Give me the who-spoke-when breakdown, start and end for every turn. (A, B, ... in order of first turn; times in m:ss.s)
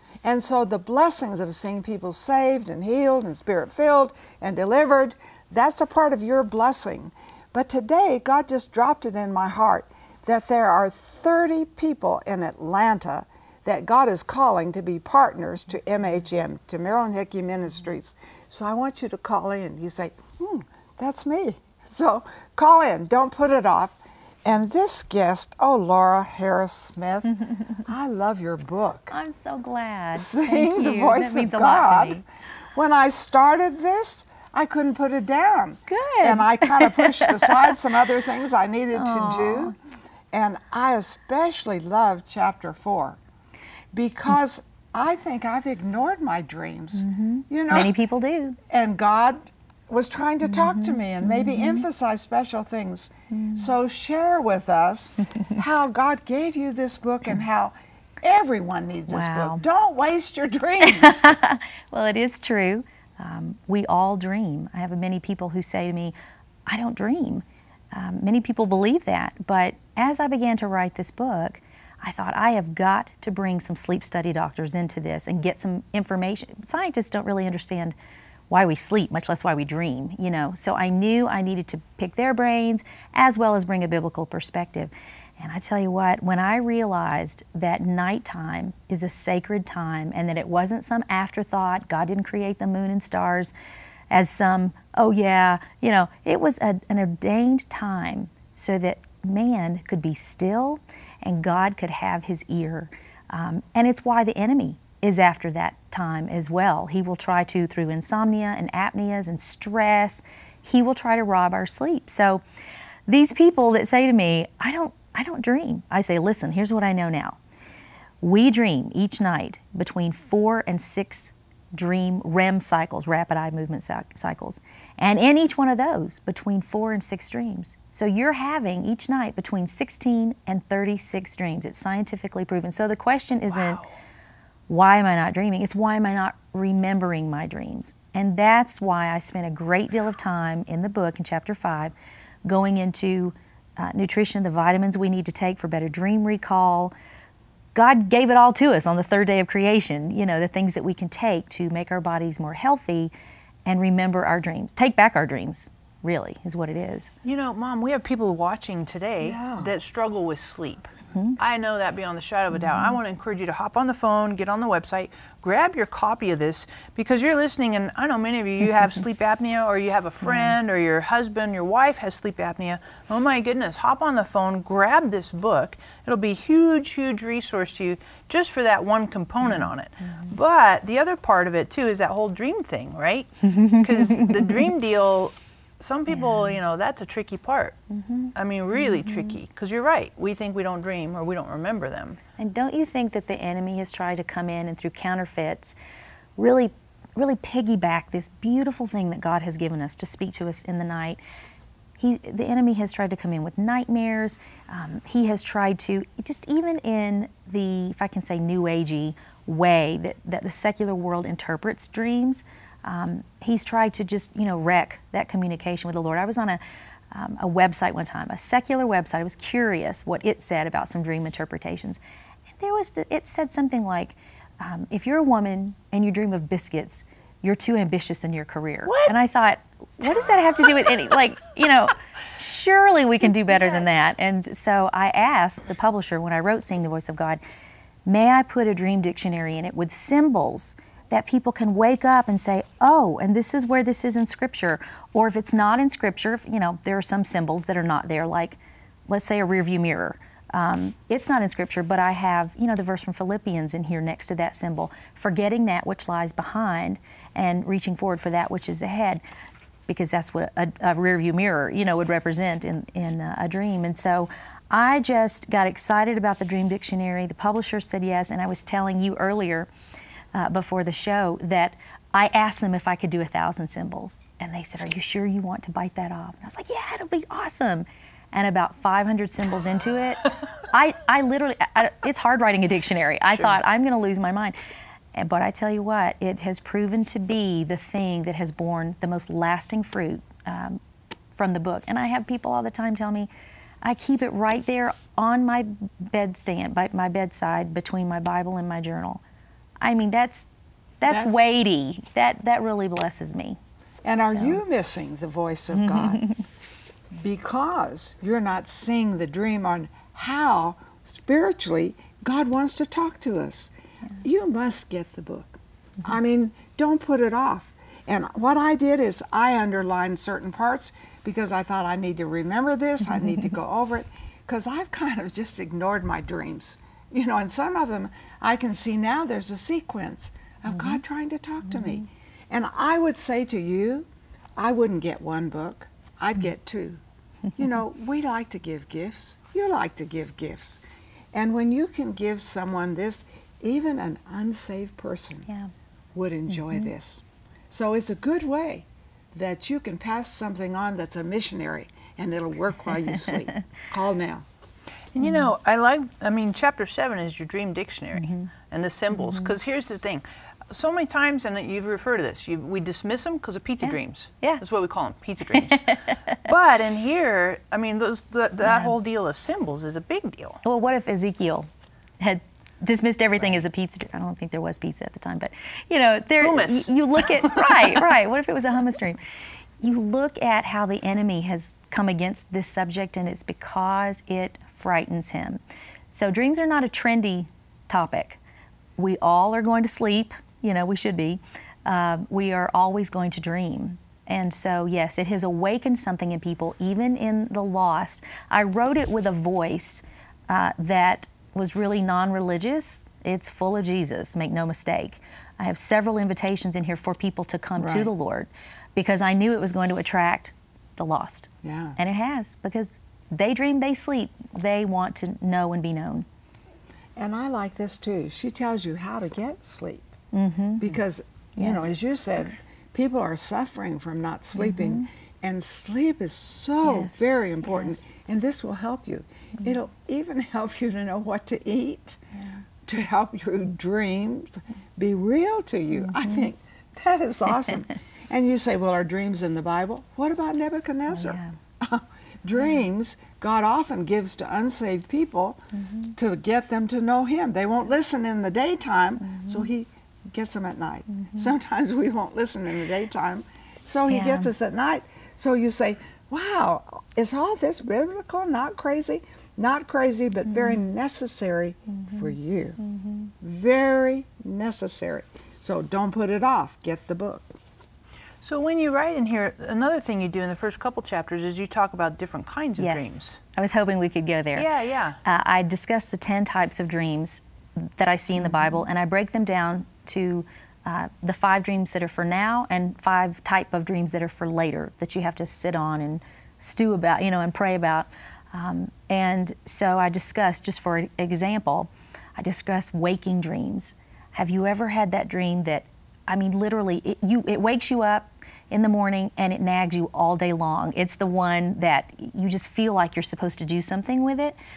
0:00.2-0:29.2 A
0:29.1-0:32.2 B
0:30.1-0:32.2 A
0:32.7-0:39.7 A
0:35.9-0:37.8 B
0:38.9-0:39.7 B
0:40.3-0:43.2 A
0:43.9-0:47.9 A
0:47.0-0:48.6 B
0:48.7-1:01.3 A
0:50.4-0:51.8 B
0:53.3-0:53.7 B
0:59.1-0:59.6 B
1:00.8-1:06.1 B
1:06.7-1:17.9 B
1:18.5-1:33.5 B
1:34.1-1:52.4 B
1:53.1-1:57.4 B
1:58.2-2:13.8 B
2:13.5-2:13.9 C
2:14.7-2:21.9 B
2:22.4-2:26.9 B
2:27.7-2:33.1 B
2:33.6-2:37.1 B
2:37.2-2:40.9 C
2:39.2-2:39.7 A
2:41.4-3:07.8 C
2:42.6-2:42.9 B
2:50.2-2:50.6 B
2:59.4-3:00.3 B
3:03.5-3:04.6 B
3:06.1-3:06.6 B
3:07.9-3:09.4 B
3:08.3-3:12.2 C
3:12.4-3:15.8 B
3:16.4-3:21.2 B
3:22.0-3:42.0 B
3:42.6-3:57.4 B
3:48.8-3:49.1 C
3:53.2-3:54.1 C
3:58.0-4:19.2 B
4:19.9-4:29.7 B
4:30.3-4:44.5 B
4:45.1-4:50.8 B
4:51.4-4:53.3 B
4:53.8-4:59.2 B
4:59.8-5:00.5 B
5:01.0-5:03.6 B
5:01.0-5:01.6 A
5:04.0-5:06.2 A
5:04.3-5:04.6 B
5:05.7-5:06.4 B
5:07.1-5:13.7 A
5:14.2-5:37.0 A
5:30.7-5:31.0 B
5:31.7-5:32.0 B
5:37.6-5:40.8 A
5:41.3-5:45.5 A
5:46.1-5:54.4 A
5:55.1-6:10.6 C
5:55.2-5:55.5 B
5:58.2-5:58.5 B
5:59.1-5:59.5 B
6:03.8-6:04.6 B
6:05.6-6:06.4 B
6:08.6-6:08.9 B
6:10.6-6:11.7 B
6:12.2-6:19.2 B
6:16.4-6:18.0 C
6:19.8-6:25.6 B
6:26.1-6:28.4 B
6:29.0-6:56.2 B
6:47.8-6:48.1 A
6:51.6-6:52.0 A
6:57.2-7:00.1 A
7:00.3-7:00.9 B
7:00.8-7:12.2 A
7:01.6-7:02.0 B
7:04.6-7:05.0 B
7:06.8-7:08.0 B
7:12.3-7:12.6 B
7:12.8-7:25.6 A
7:15.9-7:16.5 B
7:21.1-7:21.5 B
7:26.1-7:42.8 A
7:29.2-7:29.7 B
7:31.1-7:31.5 B
7:34.1-7:34.5 B
7:40.5-7:40.8 B
7:41.9-7:43.3 B
7:43.4-7:47.5 A
7:48.4-7:53.4 C
7:52.8-7:54.7 B
7:54.5-7:55.2 C
7:55.2-8:24.6 B
7:58.5-7:58.8 C